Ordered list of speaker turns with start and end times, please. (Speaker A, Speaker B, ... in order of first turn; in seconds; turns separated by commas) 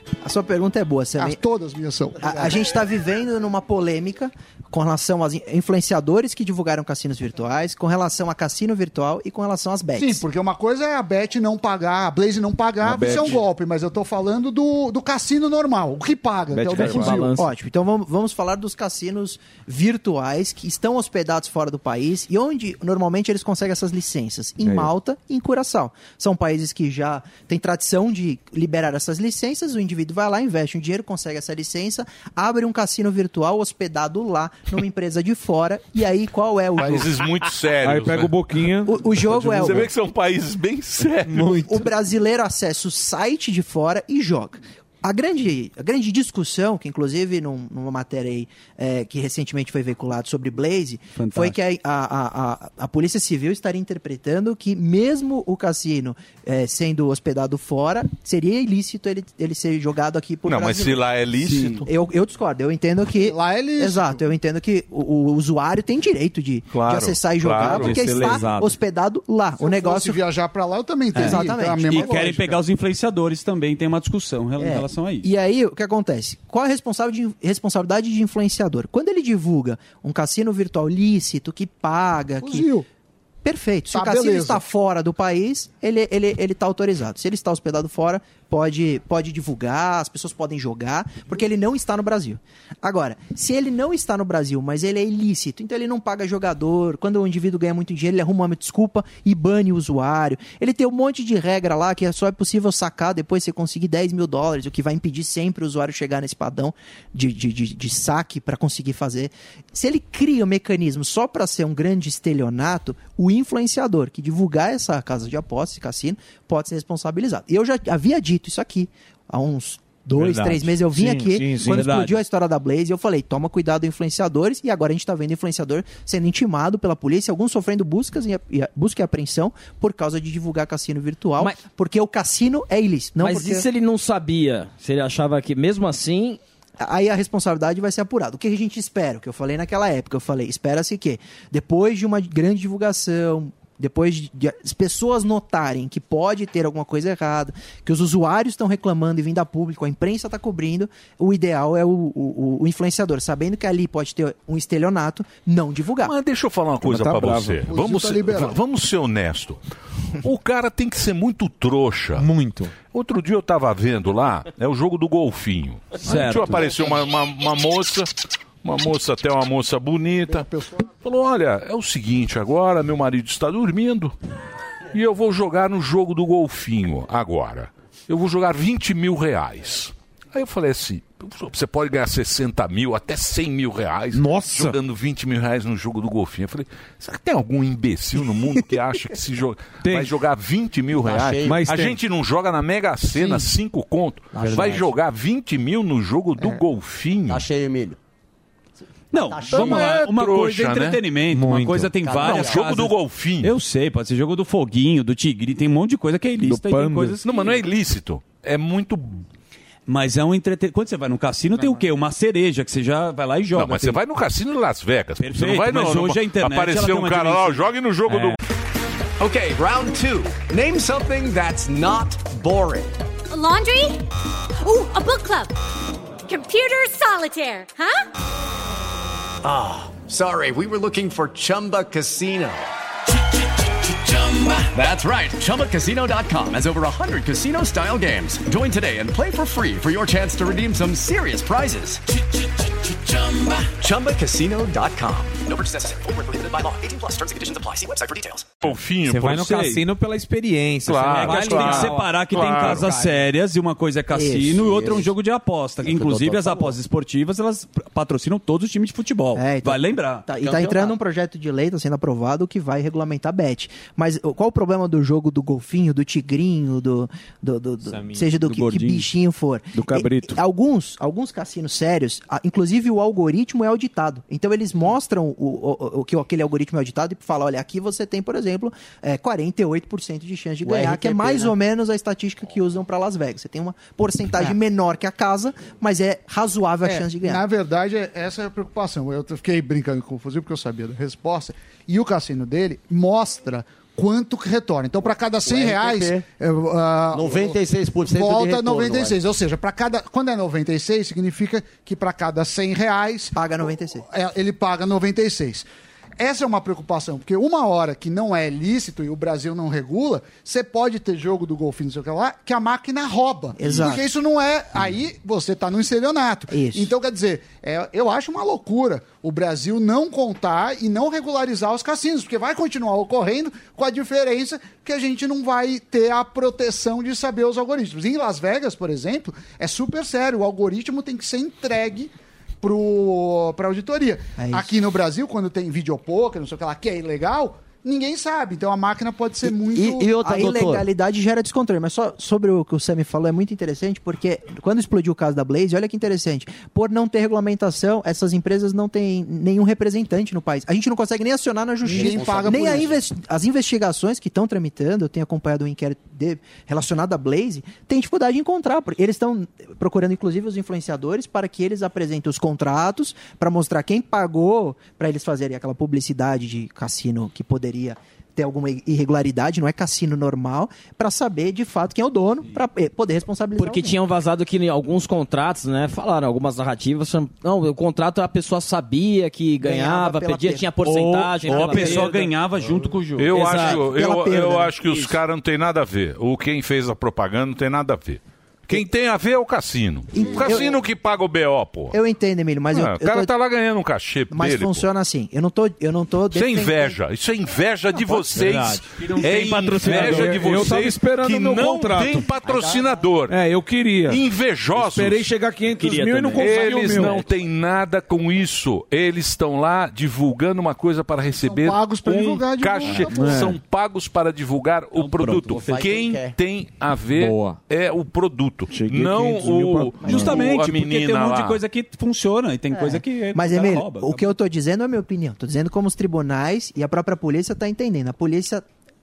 Speaker A: 0.2-1.4, Speaker B: 1.2-2.7, Speaker A: 2.2-10.2, Speaker B: 10.0-17.4, Speaker C: 13.0-13.3, Speaker C: 16.5-17.1, Speaker A: 16.8-37.1, Speaker D: 16.8-17.4, Speaker E: 36.8-38.4, Speaker C: 37.8-39.9, Speaker A: 38.9-39.9, Speaker E: 39.4-41.6, Speaker C: 41.3-41.7, Speaker A: 41.5-61.1, Speaker F: 51.2-51.6, Speaker E: 60.5-61.9, Speaker F: 61.5-61.8, Speaker A: 61.8-70.2, Speaker B: 63.2-64.2, Speaker E: 66.7-68.2, Speaker F: 67.8-68.7, Speaker G: 68.1-68.7, Speaker B: 69.6-72.6, Speaker A: 71.1-72.2, Speaker F: 71.2-75.3, Speaker A: 74.6-82.7, Speaker B: 82.4-82.8, Speaker A: 83.4-133.7, Speaker B: 83.9-84.7, Speaker C: 120.2-121.8, Speaker G: 121.0-121.8, Speaker F: 121.7-122.2, Speaker D: 133.2-136.4, Speaker A: 136.8-156.2, Speaker E: 156.0-159.6, Speaker C: 156.9-157.5, Speaker G: 157.0-157.5, Speaker B: 157.7-158.6, Speaker E: 160.2-162.3, Speaker G: 162.2-162.7, Speaker E: 162.9-168.1, Speaker F: 166.0-166.7, Speaker E: 168.6-170.5, Speaker B: 170.3-170.9, Speaker E: 171.0-174.2, Speaker E: 174.9-197.5, Speaker C: 184.1-184.8, Speaker C: 189.8-190.1, Speaker H: 191.0-191.6, Speaker C: 191.4-192.0, Speaker G: 194.4-194.9, Speaker H: 197.3-198.0, Speaker F: 199.1-207.5, Speaker H: 199.1-200.0, Speaker E: 199.5-201.0, Speaker G: 201.3-201.9, Speaker H: 202.0-202.6, Speaker E: 202.2-203.5, Speaker G: 206.5-207.2, Speaker E: 207.2-209.2, Speaker F: 209.9-214.0, Speaker E: 213.5-218.4, Speaker F: 215.2-218.4, Speaker I: 219.2-222.9, Speaker J: 223.3-224.1, Speaker J: 224.6-225.5, Speaker J: 226.2-228.0, Speaker I: 229.4-232.7, Speaker I: 233.8-248.6, Speaker E: 248.6-249.6, Speaker G: 249.1-253.2, Speaker F: 249.3-249.8, Speaker E: 250.9-252.9, Speaker F: 251.2-260.2, Speaker A: 254.1-255.0, Speaker H: 255.8-256.7, Speaker A: 259.4-287.4, Speaker H: 260.4-260.9, Speaker G: 267.9-268.3, Speaker F: 268.4-269.1, Speaker G: 269.8-270.3, Speaker B: 286.9-303.4, Speaker H: 295.4-296.2, Speaker H: 297.1-299.2, Speaker A: 303.4-304.1, Speaker B: 304.1-305.7, Speaker B: 306.2-340.2, Speaker A: 313.6-314.1, Speaker A: 316.5-316.9, Speaker A: 334.4-334.7, Speaker H: 339.4-340.9, Speaker A: 340.2-374.0, Speaker B: 351.9-353.0, Speaker H: 351.9-352.9, Speaker D: 373.6-382.3, Speaker A: 379.6-380.9, Speaker F: 380.8-383.7, Speaker A: 381.5-382.0, Speaker E: 383.2-392.0, Speaker D: 383.3-383.9, Speaker A: 383.6-384.8, Speaker A: 390.1-390.8, Speaker A: 391.9-393.3, Speaker E: 392.7-394.9, Speaker A: 394.3-397.0, Speaker E: 396.3-403.4, Speaker F: 398.5-400.7, Speaker C: 399.8-402.3, Speaker C: 403.3-407.2, Speaker E: 404.1-405.3, Speaker D: 405.8-406.5, Speaker E: 406.4-421.6, Speaker B: 411.4-413.5, Speaker C: 413.1-413.6, Speaker F: 415.0-415.4, Speaker H: 415.5-416.3, Speaker G: 417.2-417.6, Speaker C: 418.9-420.1, Speaker F: 420.0-424.4, Speaker A: 420.1-420.4, Speaker A: 422.7-428.6